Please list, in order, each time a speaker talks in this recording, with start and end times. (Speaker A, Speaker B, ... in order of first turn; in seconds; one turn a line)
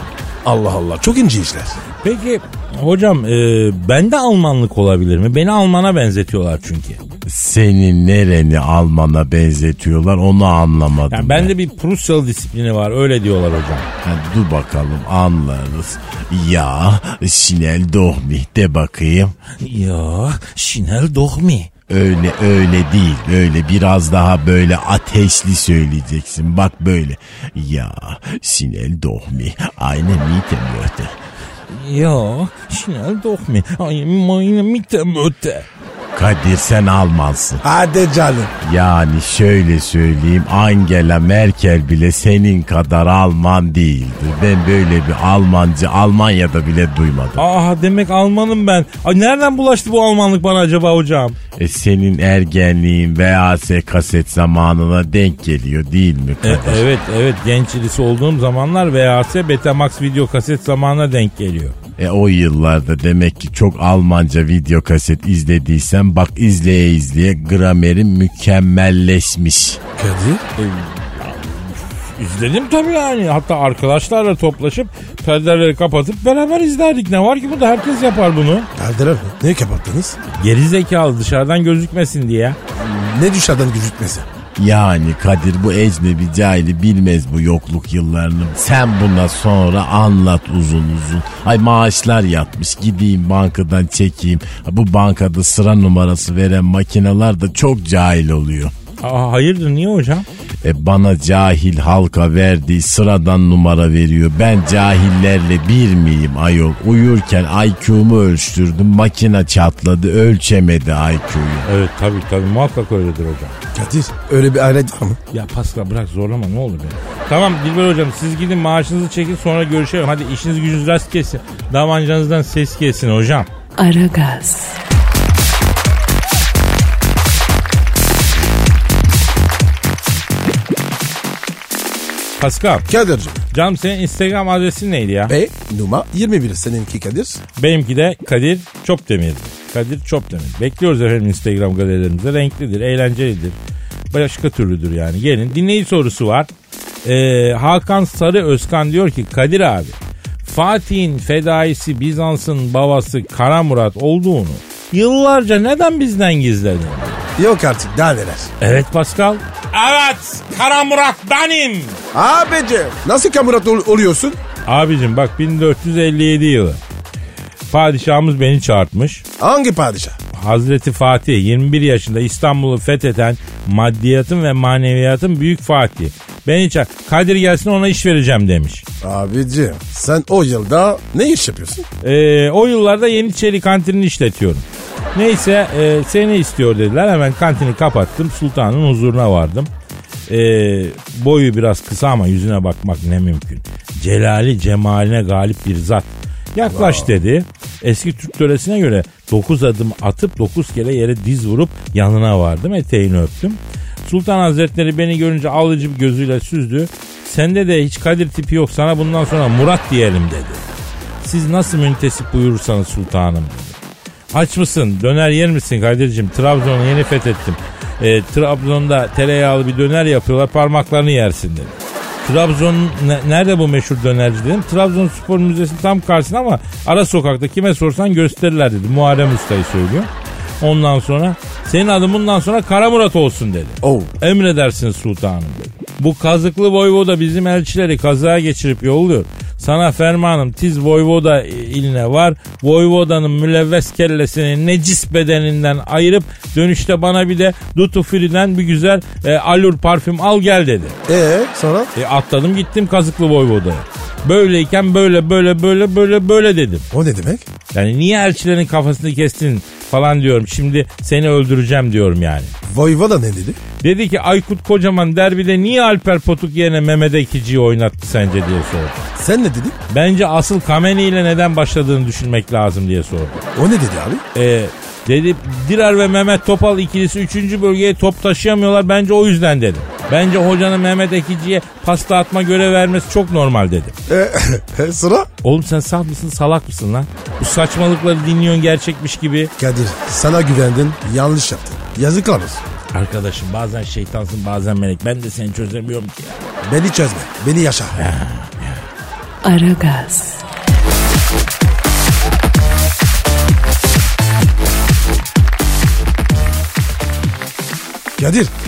Speaker A: 0.5-1.8
Speaker B: 2.0-7.0
Speaker C: 7.3-11.5
Speaker B: 11.1-13.9
Speaker C: 14.0-19.3
Speaker B: 19.6-21.7
Speaker C: 21.9-31.1
Speaker B: 31.7-35.7
Speaker C: 36.1-37.6
Speaker A: 37.6-38.5
Speaker C: 38.6-47.4
Speaker B: 47.4-51.4
Speaker C: 51.6-56.8
Speaker B: 56.4-61.8
Speaker C: 62.0-69.8
Speaker A: 70.0-70.5
Speaker B: 70.6-78.7
Speaker A: 78.8-80.2
Speaker B: 80.3-82.6
Speaker A: 82.8-84.3
Speaker C: 84.6-98.7
Speaker B: 99.0-100.3
Speaker C: 100.6-111.7
Speaker B: 111.7-113.5
Speaker A: 113.7-115.2
Speaker B: 115.3-123.5
Speaker D: 123.8-124.8
Speaker B: 132.4-132.9
Speaker A: 132.9-133.4
Speaker B: 133.5-135.3
Speaker A: 135.3-137.4
Speaker B: 137.6-143.6
Speaker B: 144.1-146.5
Speaker B: 147.1-157.3
Speaker A: 157.4-158.5
Speaker B: 158.6-162.0
Speaker A: 162.1-164.4
Speaker B: 164.7-166.8
Speaker B: 167.7-169.2
Speaker A: 169.4-170.2
Speaker B: 170.3-178.8
Speaker A: 179.0-181.9
Speaker B: 182.0-189.7
Speaker B: 190.3-210.6
Speaker A: 196.7-197.1
Speaker B: 211.2-213.8
Speaker B: 214.3-221.7
Speaker B: 222.2-230.1
Speaker B: 230.6-251.0
Speaker A: 233.8-234.1
Speaker A: 251.1-251.9
Speaker B: 251.9-256.9
Speaker A: 256.9-257.5
Speaker B: 257.7-262.5
Speaker A: 262.7-263.6
Speaker B: 263.8-269.1
Speaker A: 269.2-269.8
Speaker B: 269.9-273.4
Speaker A: 273.6-274.2
Speaker B: 274.4-283.9
Speaker A: 284.1-285.3
Speaker B: 285.4-289.5
Speaker A: 289.6-292.6
Speaker B: 292.9-296.4
Speaker A: 296.6-298.0
Speaker B: 298.0-298.8
Speaker D: 299.4-300.4
Speaker A: 308.2-308.5